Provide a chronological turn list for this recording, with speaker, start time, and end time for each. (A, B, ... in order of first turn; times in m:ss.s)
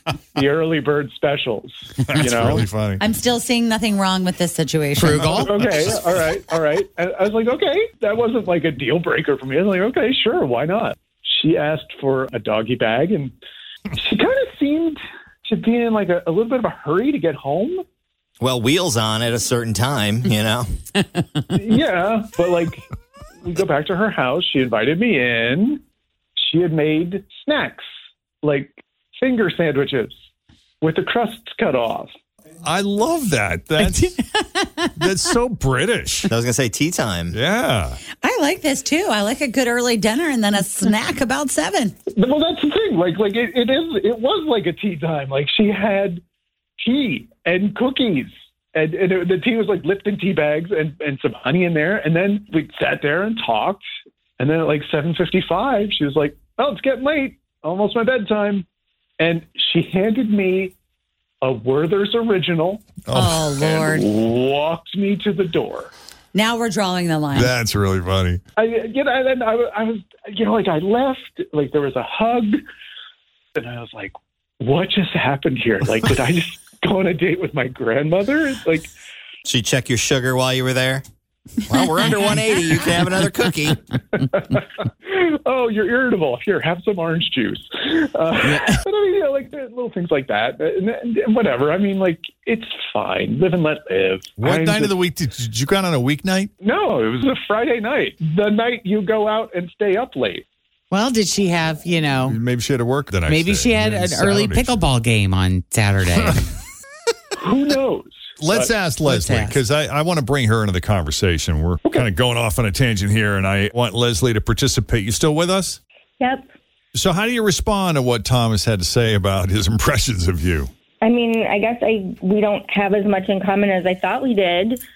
0:00.3-0:02.7 A
0:02.0-0:03.0 B
0:03.0-0:05.5 C
0:05.0-0:05.5 D
0:05.1-0:05.9 B
0:05.5-0:13.3 A
0:13.9-0:17.8 A
0:18.4-0:20.7 E
0:21.5-0:22.9 A
0:23.4-0:25.8 A
0:26.4-0:27.9 A
0:28.4-0:30.1 A
0:30.8-0:32.1 A
0:32.6-0:34.2 B
0:33.8-0:35.1 D
0:35.0-0:36.3 B
0:36.3-0:37.4 E
0:37.3-0:38.0 B
0:38.2-0:41.9 C
0:42.1-0:46.2 A
0:46.8-0:53.8 A
0:54.4-0:58.6 A
0:59.2-1:00.7 A
1:01.4-1:03.0 A
1:03.0-1:03.5 B
1:03.1-1:04.1 C
1:03.6-1:05.9 A
1:06.3-1:07.5 C
1:07.3-1:08.4 B
1:08.6-1:12.6 A
1:13.6-1:18.9 A
1:19.4-1:21.0 E
1:21.6-1:23.8 E
1:24.1-1:34.9 A
1:28.4-1:28.8 D
1:34.4-1:36.5 B
1:36.6-1:40.4 A
1:40.9-1:42.4 D
1:42.2-1:44.7 B
1:43.3-1:46.4 D
1:47.4-1:48.7 A
1:48.4-1:55.8 B
1:49.0-1:49.6 D
1:56.2-1:56.5 F
1:56.9-2:00.7 B
2:01.0-2:04.8 F